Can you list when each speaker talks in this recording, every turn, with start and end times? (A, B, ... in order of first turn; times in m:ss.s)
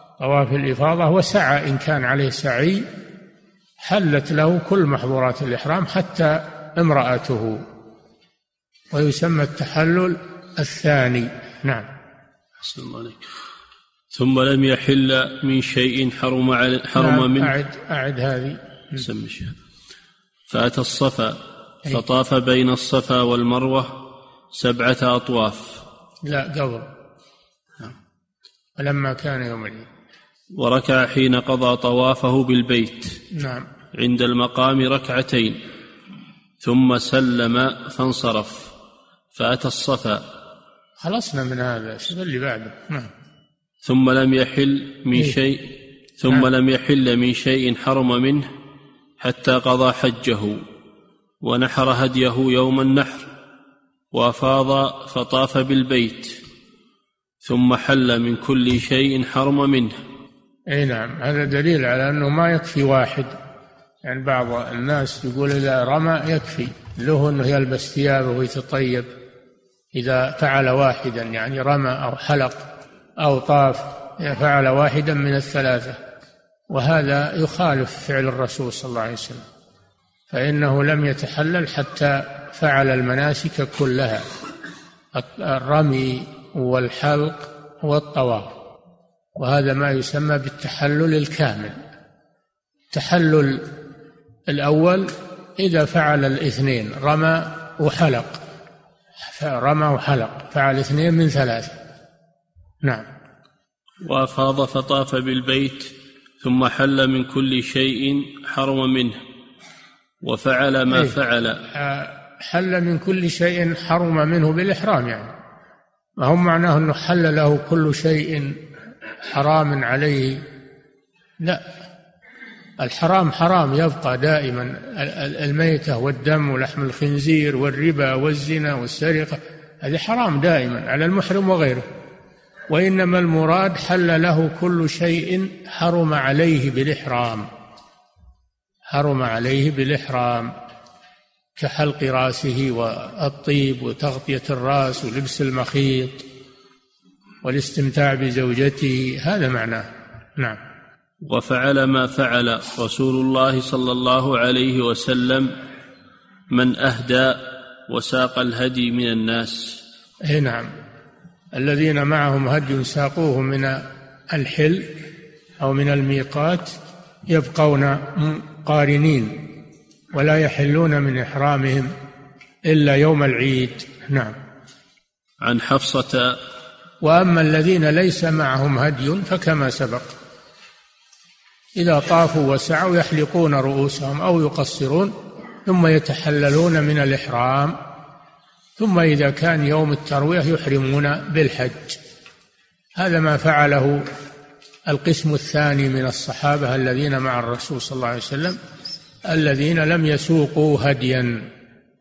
0:00.2-0:02.9 A
0:03.8-0:07.6 A
0:08.9-0:11.9 A
0:12.6-0:13.2 B
0:14.1-0:17.5 B
0:17.0-0:19.0 A
0:19.0-0:19.6 B
0:20.5-0:24.0 B
0:24.5-0:25.8 B
0:26.2-0:26.9 A
0:28.8-0:29.9 A
0:30.6-0:33.2 B
0:33.3-0:33.7 A
0:33.9-0:35.6 B
0:36.6-0:38.7 B
0:39.3-0:40.2 B
0:41.0-0:43.1 A
0:43.8-0:48.5 B
0:49.2-0:50.6 B
0:51.4-0:53.3 B
0:54.1-0:56.4 B
0:57.4-0:59.9 B
1:00.7-1:03.4 A
1:04.0-1:09.1 A
1:10.0-1:12.6 A
1:13.2-1:16.0 A
1:16.7-1:19.4 A
1:20.3-1:24.3 A
1:25.1-1:28.5 A
1:29.4-1:31.8 A
1:32.9-1:33.7 A
1:34.5-1:38.4 A
1:39.2-1:41.8 A
1:44.0-1:49.2 B
1:50.2-1:51.6 B
1:50.9-1:51.2 A
1:51.7-1:55.3 A
1:56.2-1:58.6 A
1:59.3-2:00.4 A
2:01.4-2:01.7 A
2:02.8-2:11.9 A
2:12.7-2:17.5 A
2:18.9-2:20.5 A
2:21.6-2:26.2 A
2:27.4-2:29.9 A
2:31.2-2:35.5 B
2:36.5-2:39.8 B
2:40.3-2:40.7 A
2:41.5-2:45.0 A
2:45.6-2:46.7 A
2:47.3-2:49.5 A
2:50.1-2:51.9 A
2:52.7-2:54.4 A
2:55.4-2:56.4 B
2:57.0-3:00.2 A
3:01.8-3:05.1 A
3:05.7-3:07.8 A
3:08.8-3:12.0 A
3:13.0-3:14.0 A
3:14.9-3:18.6 A
3:19.3-3:21.4 A